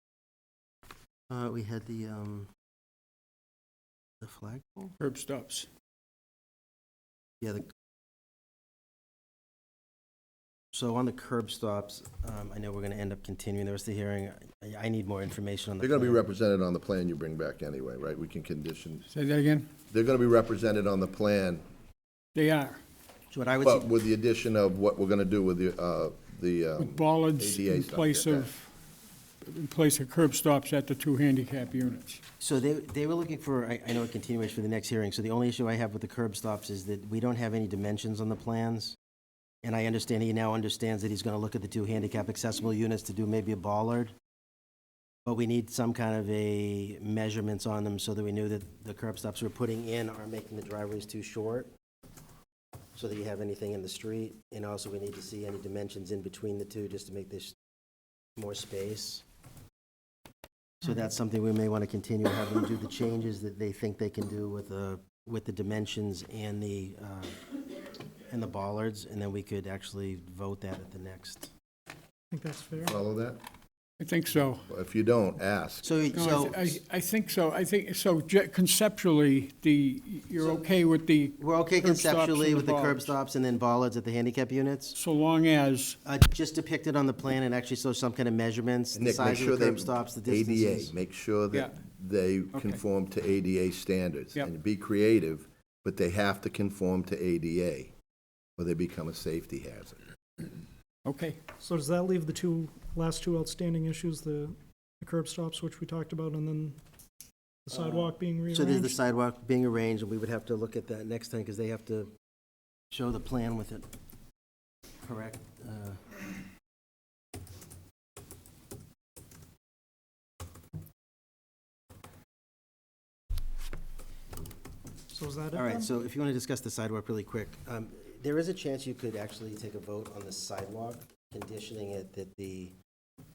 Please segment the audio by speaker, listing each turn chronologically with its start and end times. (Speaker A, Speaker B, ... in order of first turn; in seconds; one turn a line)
Speaker A: 1.3-2.5
Speaker A: 4.2-5.0
Speaker B: 5.0-5.7
Speaker A: 7.4-7.7
Speaker A: 10.7-16.3
Speaker C: 15.8-19.1
Speaker B: 19.1-19.7
Speaker C: 19.9-21.6
Speaker B: 22.4-22.8
Speaker A: 23.3-23.9
Speaker C: 23.6-28.5
Speaker B: 26.8-28.7
Speaker B: 29.4-32.2
Speaker A: 32.4-39.0
Speaker A: 39.6-44.1
Speaker A: 45.3-51.7
Speaker A: 53.0-57.6
Speaker A: 58.4-59.2
Speaker A: 60.8-67.4
Speaker A: 68.3-71.5
Speaker D: 72.3-73.0
Speaker C: 72.8-73.4
Speaker B: 74.0-74.6
Speaker C: 74.6-76.0
Speaker A: 75.8-76.8
Speaker B: 76.1-83.1
Speaker A: 80.4-80.7
Speaker A: 81.4-85.0
Speaker B: 84.9-86.0
Speaker A: 86.0-90.9
Speaker C: 89.0-97.9
Speaker B: 92.5-92.8
Speaker C: 98.6-100.0
Speaker B: 101.0-101.4
Speaker D: 101.6-106.8
Speaker D: 107.7-109.0
Speaker A: 107.7-112.1
Speaker A: 112.9-113.9
Speaker A: 115.0-116.0
Speaker D: 125.1-125.9
Speaker A: 125.5-132.8